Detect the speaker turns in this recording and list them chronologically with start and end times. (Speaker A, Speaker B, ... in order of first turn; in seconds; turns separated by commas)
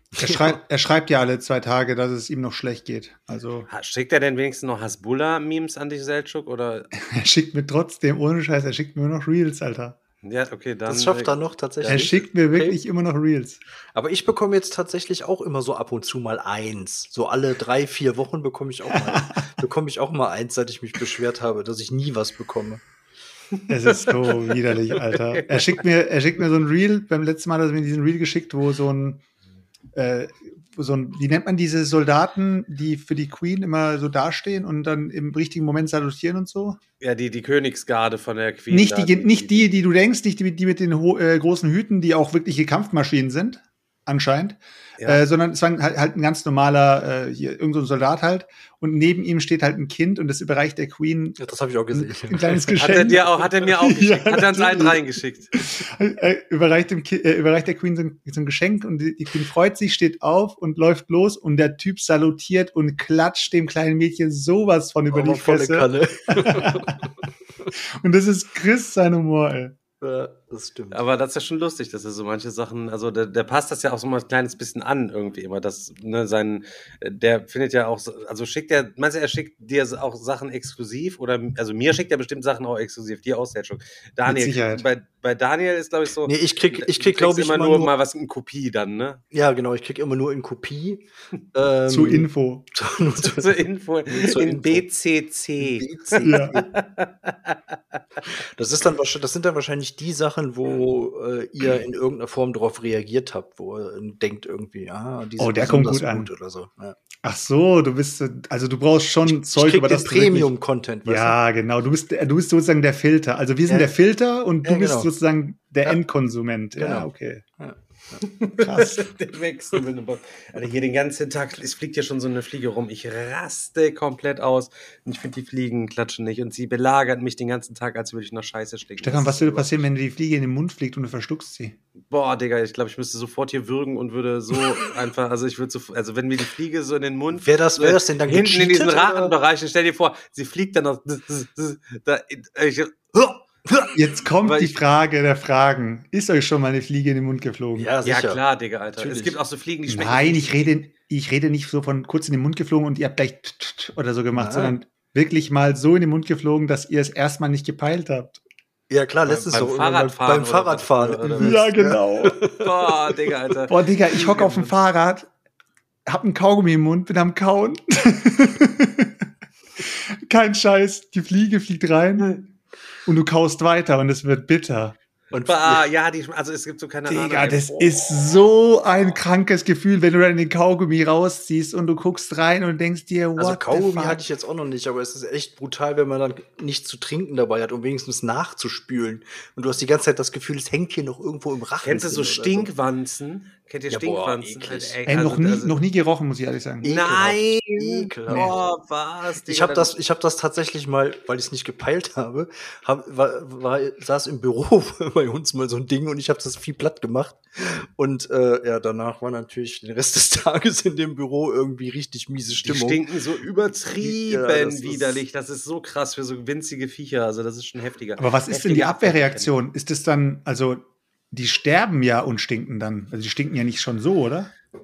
Speaker A: 0.2-3.7, Speaker B: 3.7-6.9, Speaker A: 7.0-10.0, Speaker B: 10.2-12.2, Speaker C: 10.9-12.8, Speaker A: 11.9-13.6, Speaker C: 13.9-22.8, Speaker B: 23.6-25.7, Speaker A: 23.7-29.2, Speaker A: 29.9-36.8, Speaker B: 37.0-39.8, Speaker A: 38.7-55.0, Speaker B: 45.0-45.2, Speaker C: 51.4-52.8, Speaker B: 52.8-55.5, Speaker A: 55.5-67.0, Speaker C: 65.1-67.1, Speaker A: 67.8-69.8, Speaker C: 70.0-71.0, Speaker B: 70.9-89.2, Speaker A: 84.2-84.8, Speaker C: 86.3-87.9, Speaker C: 89.3-91.0, Speaker C: 91.5-93.6, Speaker A: 91.9-92.7, Speaker B: 93.2-97.8, Speaker C: 94.1-94.8, Speaker C: 95.6-96.5, Speaker A: 96.2-96.6, Speaker C: 98.5-107.0, Speaker A: 105.4-106.3, Speaker A: 107.2-110.5, Speaker C: 109.3-111.4, Speaker A: 111.0-117.4, Speaker C: 113.7-113.9, Speaker C: 114.6-115.1, Speaker C: 116.8-117.1, Speaker C: 117.6-118.2, Speaker B: 118.2-129.7, Speaker A: 118.6-119.0, Speaker A: 129.0-131.8, Speaker B: 132.1-143.9, Speaker C: 137.3-139.3, Speaker A: 143.9-147.9, Speaker B: 144.4-144.7, Speaker C: 147.8-148.4, Speaker B: 148.0-150.6, Speaker C: 149.0-149.4, Speaker A: 149.9-158.4, Speaker C: 154.3-154.8, Speaker C: 158.9-162.9, Speaker B: 159.3-161.7, Speaker A: 161.4-162.4, Speaker B: 162.6-164.8, Speaker A: 163.7-165.3, Speaker A: 166.1-169.2, Speaker A: 169.9-172.4, Speaker A: 173.1-175.0, Speaker C: 175.3-175.8, Speaker B: 175.5-178.0, Speaker A: 177.1-184.2, Speaker C: 183.4-192.7, Speaker B: 191.8-195.7, Speaker C: 193.9-195.0, Speaker A: 195.1-196.9, Speaker C: 196.8-198.6, Speaker B: 196.8-199.9, Speaker A: 198.3-198.6, Speaker C: 199.5-213.1, Speaker B: 212.7-219.5, Speaker C: 214.0-215.2, Speaker A: 218.2-224.5